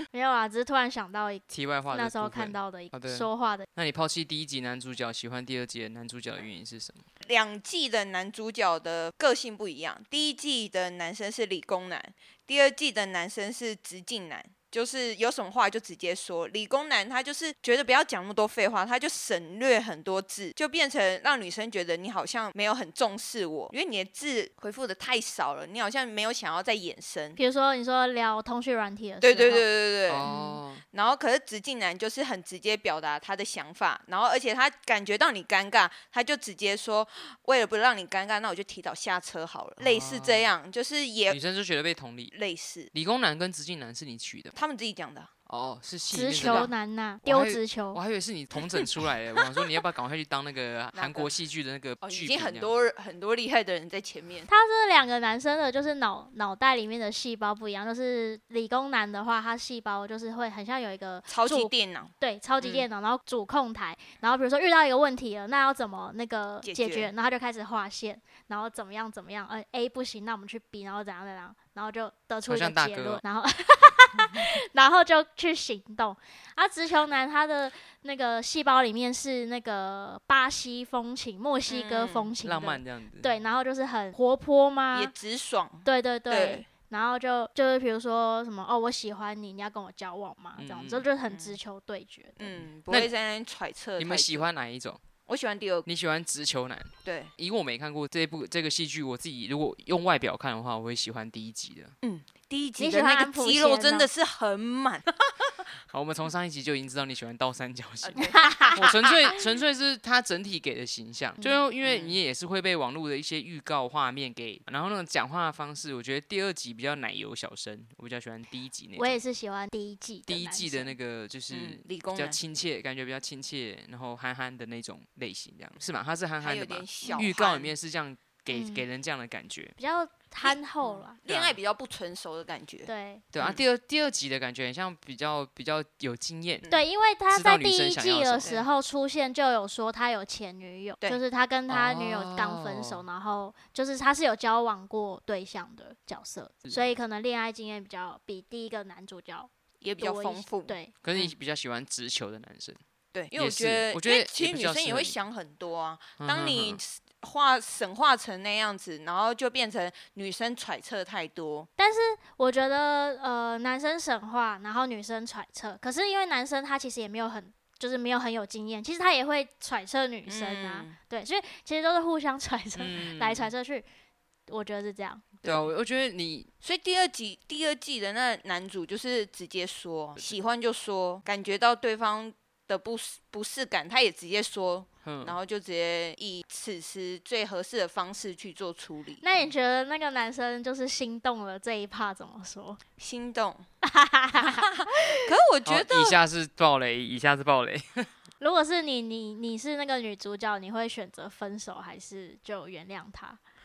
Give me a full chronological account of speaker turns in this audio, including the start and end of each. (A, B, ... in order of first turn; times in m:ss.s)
0:00.1-0:03.7 A
0:01.5-0:07.0 B
0:07.2-0:27.4 C
0:27.4-0:29.6 A
0:29.2-0:30.3 C
0:30.1-0:30.8 B
0:30.2-0:30.6 A
0:30.9-0:41.4 C
0:39.8-0:40.5 B
0:41.3-0:42.3 B
0:42.3-0:42.9 C
0:42.9-0:44.6 B
0:44.6-0:45.3 C
0:45.5-0:46.7 B
0:46.1-0:48.0 A
0:46.4-0:46.7 C
0:47.2-0:52.7 B
0:50.9-0:51.3 C
0:52.0-0:54.5 C
0:54.5-1:25.1 A
1:01.3-1:02.8 C
1:06.6-1:07.1 C
1:12.5-1:13.2 B
1:21.7-1:22.3 C
1:22.4-1:23.3 B
1:24.9-1:26.7 C
1:25.8-1:32.6 A
1:30.6-1:31.1 B
1:31.3-1:31.6 C
1:32.4-1:34.5 C
1:32.9-1:33.1 B
1:34.0-1:35.0 B
1:35.3-1:35.9 C
1:35.9-1:41.9 B
1:37.0-1:37.3 C
1:42.0-1:45.5 C
1:42.8-1:44.1 A
1:45.9-1:59.2 B
1:48.0-1:49.3 C
1:48.2-1:48.8 A
1:51.8-1:52.2 C
1:59.0-2:00.9 A
2:00.3-2:09.8 B
2:01.5-2:02.4 C
2:06.4-2:07.7 C
2:08.5-2:08.8 A
2:09.8-2:11.2 A
2:10.4-2:13.6 C
2:11.3-2:11.6 B
2:12.9-2:13.2 A
2:13.3-2:16.6 B
2:16.7-2:30.9 A
2:17.3-2:18.6 B
2:21.7-2:23.0 B
2:29.8-2:31.3 C
2:31.0-2:32.8 B
2:33.1-2:41.7 C
2:33.4-2:35.2 B
2:36.2-2:36.8 B
2:41.8-2:53.8 A
2:50.3-2:50.9 C
2:52.8-2:53.5 B
2:54.5-2:55.2 A
2:55.4-2:55.7 C
2:55.4-2:56.5 B
2:56.6-3:09.2 C
3:05.0-3:05.4 B
3:09.2-3:12.8 A
3:13.0-3:13.6 C
3:13.8-3:15.2 A
3:14.4-3:16.2 C
3:15.7-3:18.1 B
3:18.4-3:23.4 A